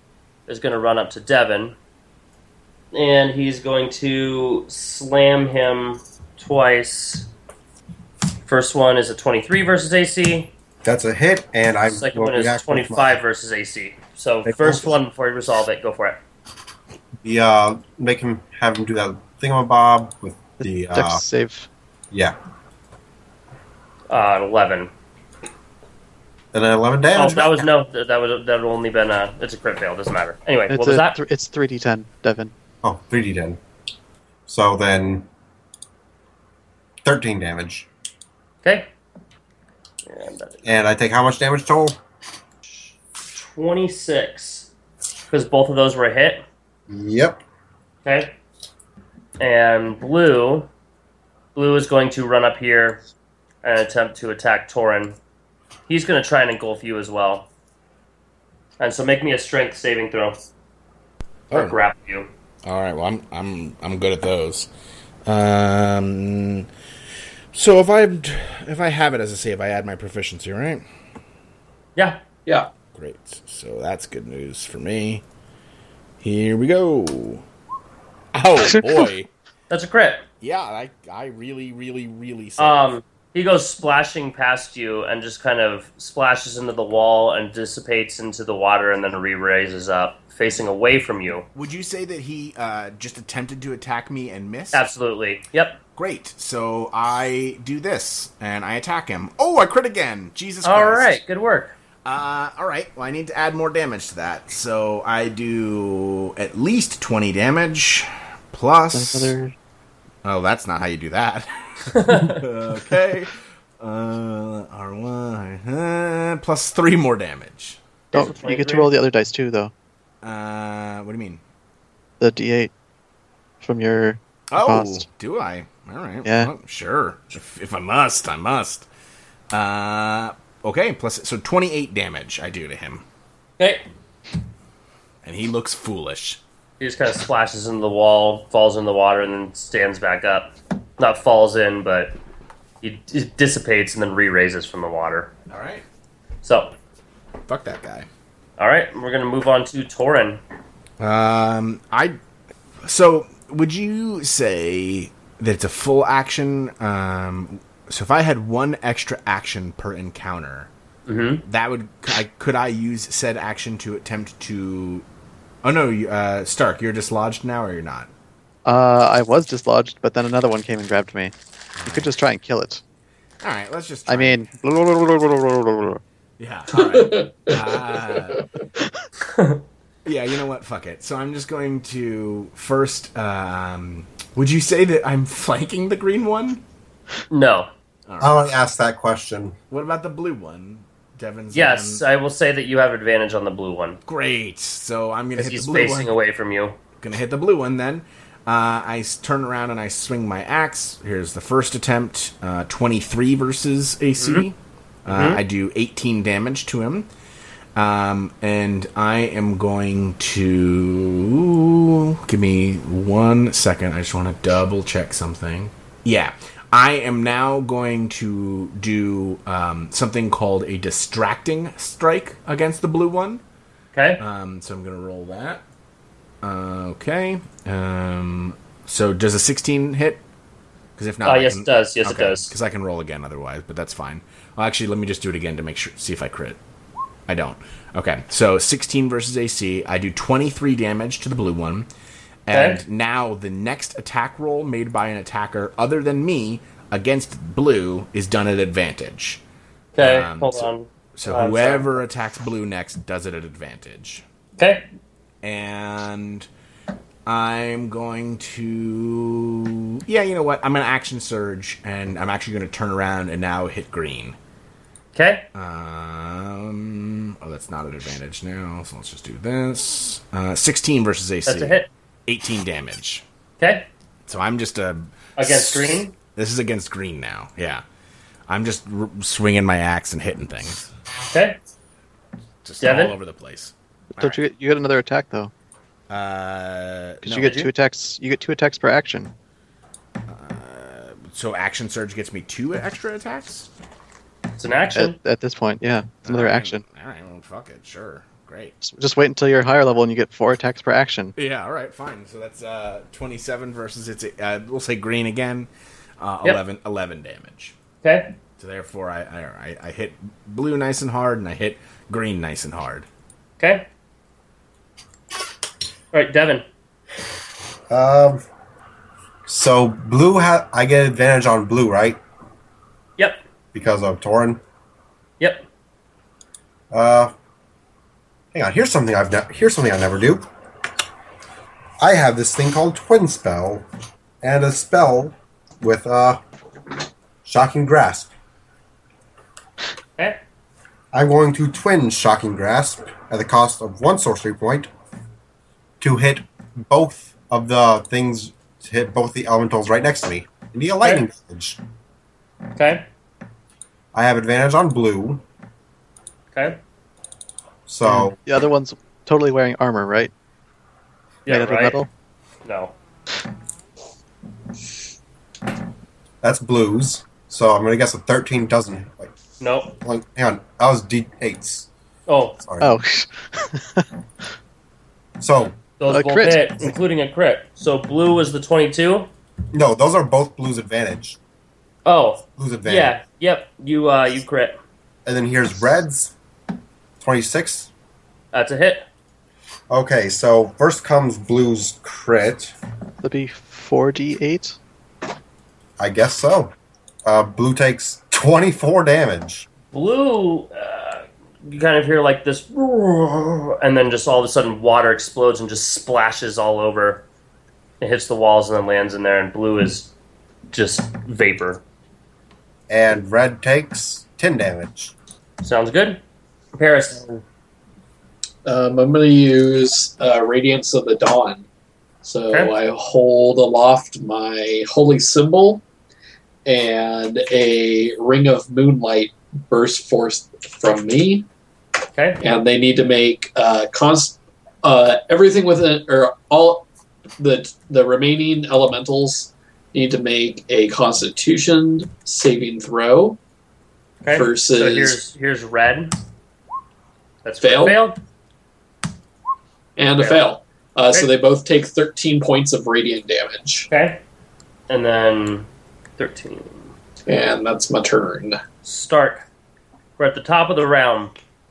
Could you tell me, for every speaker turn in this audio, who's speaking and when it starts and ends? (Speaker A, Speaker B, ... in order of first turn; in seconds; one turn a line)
Speaker A: 0.5-1.8
Speaker A: 2.9-7.3
Speaker A: 8.4-10.5
Speaker B: 10.8-13.2
Speaker A: 11.9-16.2
Speaker B: 14.4-15.0
Speaker B: 17.2-21.2
Speaker C: 20.6-21.7
Speaker A: 24.1-24.9
Speaker B: 26.5-27.7
Speaker A: 27.1-31.2
Speaker C: 30.7-32.5
Speaker B: 32.8-33.6
Speaker B: 34.5-35.3
Speaker B: 37.0-37.9
Speaker A: 38.6-38.9
Speaker A: 40.1-40.6
Speaker B: 40.6-42.0
Speaker A: 42.7-44.7
Speaker A: 45.3-46.4
Speaker B: 46.9-47.4
Speaker A: 48.0-48.3
Speaker A: 49.4-50.7
Speaker A: 51.5-53.0
Speaker A: 53.6-55.1
Speaker A: 55.9-57.5
Speaker A: 58.8-60.4
Speaker A: 61.5-62.3
Speaker D: 62.6-64.7
Speaker D: 65.2-66.7
Speaker D: 67.5-70.8
Speaker D: 72.9-75.2
Speaker D: 76.2-77.4
Speaker D: 78.3-79.3
Speaker A: 79.7-80.2
Speaker D: 80.4-82.9
Speaker A: 82.6-91.5
Speaker D: 91.5-94.8
Speaker A: 94.7-95.8
Speaker D: 95.9-101.2
Speaker A: 100.6-101.7
Speaker D: 102.0-109.3
Speaker C: 108.9-109.5
Speaker D: 110.2-117.8
Speaker A: 111.9-112.4
Speaker A: 118.1-118.9
Speaker C: 118.1-119.7
Speaker D: 120.2-121.4
Speaker C: 122.2-122.7
Speaker C: 123.6-125.0
Speaker D: 124.5-128.9
Speaker C: 126.2-126.5
Speaker D: 129.5-133.0
Speaker A: 133.6-133.8
Speaker D: 135.2-136.4
Speaker A: 136.8-142.1
Speaker A: 142.8-145.3
Speaker D: 145.5-145.8
Speaker A: 146.4-146.7
Speaker D: 147.5-148.1
Speaker A: 148.6-150.4
Speaker D: 151.0-152.2
Speaker D: 152.8-160.7
Speaker A: 161.1-161.4
Speaker D: 161.4-165.0
Speaker D: 165.6-168.1
Speaker C: 168.6-171.3
Speaker D: 171.8-172.1
Speaker C: 171.8-172.8
Speaker D: 173.4-174.4
Speaker C: 174.1-176.0
Speaker D: 176.4-178.4
Speaker E: 176.7-178.4
Speaker C: 178.8-179.0
Speaker A: 179.3-179.6
Speaker D: 180.0-186.6
Speaker A: 187.3-187.7
Speaker D: 188.1-188.5
Speaker B: 188.2-189.6
Speaker D: 189.7-192.0
Speaker A: 191.5-194.0
Speaker D: 194.1-196.1
Speaker A: 195.3-196.8
Speaker D: 197.0-207.1
Speaker A: 204.2-204.4
Speaker A: 205.1-205.4
Speaker D: 207.8-223.4
Speaker A: 223.9-224.2
Speaker D: 224.2-225.6
Speaker D: 226.4-230.2
Speaker D: 231.0-236.6
Speaker A: 231.2-232.5
Speaker D: 237.3-241.9
Speaker D: 242.4-249.4
Speaker A: 242.5-242.8
Speaker A: 249.9-252.0
Speaker D: 250.0-254.2
Speaker A: 254.6-254.8
Speaker D: 255.4-256.5
Speaker D: 257.2-264.4
Speaker A: 265.1-265.4
Speaker D: 265.5-273.2
Speaker A: 271.4-271.9
Speaker A: 273.6-273.9
Speaker D: 274.3-277.8
Speaker A: 275.4-276.1
Speaker D: 278.5-280.9
Speaker A: 281.3-281.6
Speaker D: 282.6-284.4
Speaker A: 282.8-283.1
Speaker C: 284.2-285.5
Speaker D: 286.1-287.6
Speaker C: 287.2-289.3
Speaker A: 287.3-287.7
Speaker D: 290.3-293.7
Speaker A: 294.6-295.2
Speaker C: 294.9-296.8
Speaker D: 296.2-298.7
Speaker C: 298.8-301.3
Speaker D: 301.4-307.7
Speaker A: 308.0-308.3
Speaker D: 308.6-313.1
Speaker A: 313.6-313.9
Speaker A: 316.1-316.6
Speaker B: 317.9-318.4
Speaker B: 319.4-322.2
Speaker B: 323.7-324.6
Speaker A: 325.4-325.6
Speaker B: 326.9-327.3
Speaker B: 328.5-330.4
Speaker B: 332.0-333.9
Speaker B: 334.4-336.4
Speaker B: 337.4-338.3
Speaker B: 341.1-344.9
Speaker B: 346.0-351.8
Speaker A: 352.8-353.0
Speaker B: 354.1-355.4
Speaker A: 356.5-356.8
Speaker B: 357.9-358.4
Speaker C: 358.0-360.3
Speaker A: 361.4-362.0
Speaker C: 361.5-362.1
Speaker A: 362.6-362.9
Speaker B: 366.4-369.3
Speaker A: 369.6-369.9
Speaker B: 370.0-371.9
Speaker A: 372.3-372.6
Speaker B: 372.6-373.0
Speaker C: 372.8-374.1
Speaker B: 375.4-375.8
Speaker A: 376.0-379.3
Speaker C: 376.1-376.8
Speaker B: 379.7-381.4
Speaker A: 382.1-384.8
Speaker B: 382.6-383.1
Speaker B: 385.2-386.3
Speaker B: 387.2-387.9
Speaker A: 388.5-389.1
Speaker B: 389.9-392.7
Speaker C: 393.2-394.8
Speaker B: 396.0-399.7
Speaker A: 399.9-407.2
Speaker A: 408.0-410.1
Speaker A: 410.7-411.8
Speaker B: 412.9-415.1
Speaker A: 415.6-416.2
Speaker A: 416.7-417.2
Speaker B: 417.1-417.4
Speaker E: 418.6-421.6
Speaker E: 422.2-425.8
Speaker E: 426.6-431.5
Speaker A: 432.1-432.4
Speaker E: 432.4-436.9
Speaker E: 437.4-443.4
Speaker A: 444.2-446.1
Speaker E: 444.3-445.2
Speaker A: 447.4-448.2
Speaker E: 447.6-448.0
Speaker E: 450.0-453.9
Speaker A: 450.2-450.4
Speaker A: 453.9-454.2
Speaker A: 454.9-456.9
Speaker E: 457.3-458.6
Speaker A: 458.8-459.4
Speaker A: 460.2-461.3